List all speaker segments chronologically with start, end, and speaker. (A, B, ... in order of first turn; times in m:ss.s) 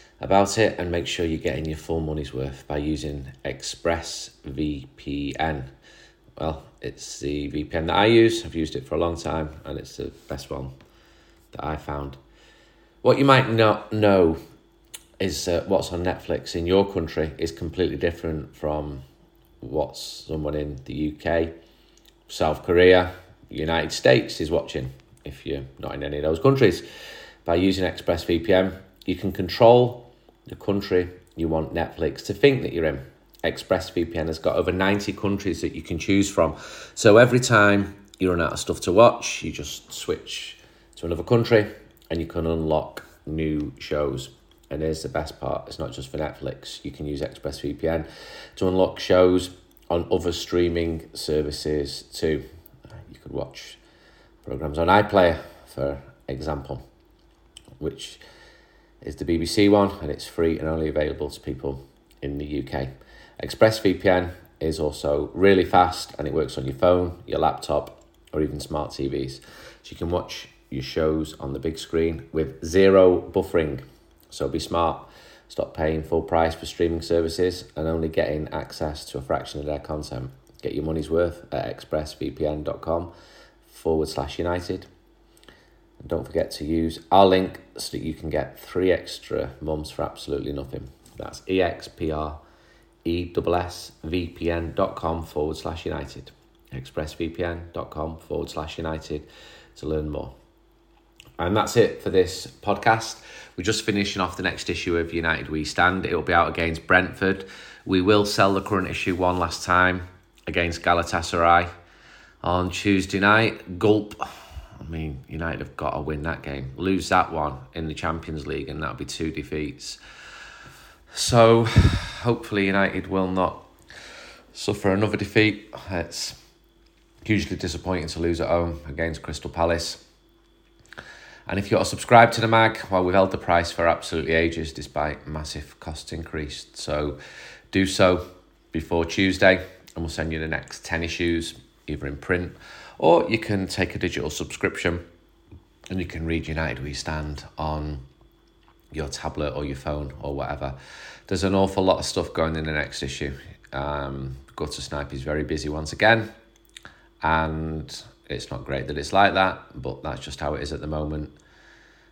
0:00.2-0:05.7 A
0:06.4-0:10.7 A
0:11.5-0:12.2 A
0:13.0-0:14.4 A
0:15.2-0:19.0 A
0:19.6-0:21.6 A
0:22.3-0:26.9 A
0:27.4-0:52.4 A
0:53.0-0:53.8 A
0:54.4-0:56.8 A
0:57.8-0:58.2 A
0:59.0-1:23.1 A
1:23.7-1:24.9 A
1:26.0-1:32.4 A
1:33.0-1:40.3 A
1:41.4-1:51.7 A
1:52.4-1:54.3 A
1:54.8-2:00.0 A
2:01.1-2:03.7 A
2:04.5-2:06.4 A
2:07.2-2:10.0 A
2:11.5-2:17.2 A
2:17.7-2:25.0 A
2:25.9-2:28.0 A
2:28.9-2:30.8 A
2:31.3-2:36.3 A
2:37.2-2:41.3 A